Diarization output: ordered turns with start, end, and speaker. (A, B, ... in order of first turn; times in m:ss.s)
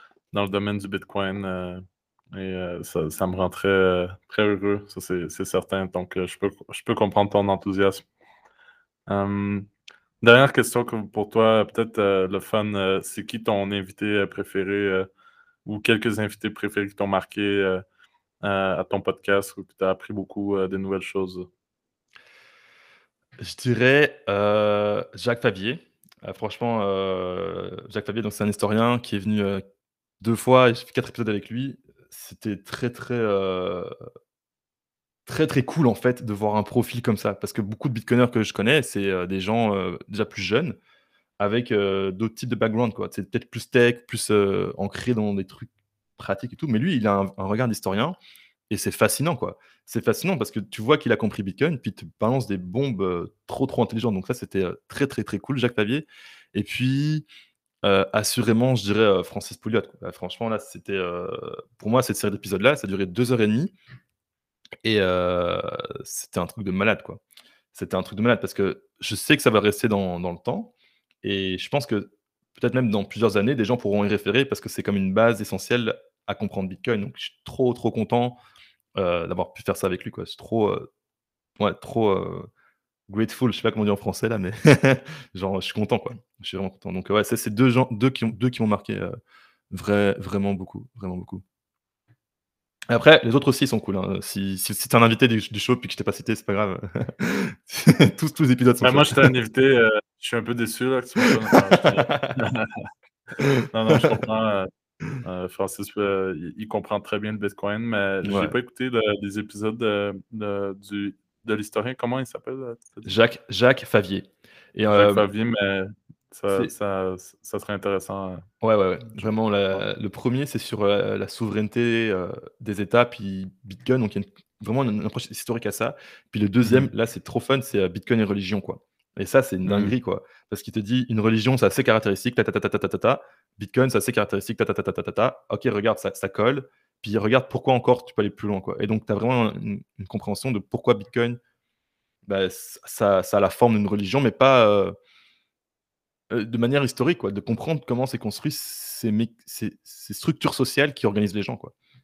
0:00.3-0:08.0 A
0:09.1-0:09.7 A
0:10.2-0:15.1 A
0:15.6-0:17.8 A
0:18.4-0:21.5 A
0:23.4-0:29.6 B
0:30.2-0:33.9 B
0:35.3-0:40.8 B
0:41.4-0:48.2 B
0:48.7-0:57.3 B
0:57.8-1:03.7 B
1:04.8-1:07.2 B
1:07.7-1:10.7 B
1:11.2-1:18.4 B
1:19.0-1:20.9 B
1:21.6-1:22.5 B
1:23.1-1:29.1 B
1:29.7-1:31.4 B
1:32.9-1:39.3 B
1:38.8-1:42.7 A
1:41.3-1:42.4 B
1:43.4-1:44.2 B
1:43.7-1:44.7 A
1:45.2-1:53.1 A
1:48.2-1:48.6 B
1:53.1-1:55.3 B
1:54.9-1:58.4 A
1:58.6-2:21.4 B
2:06.6-2:06.9 A
2:09.7-2:10.0 A
2:22.3-2:24.9 B
2:26.3-2:31.7 B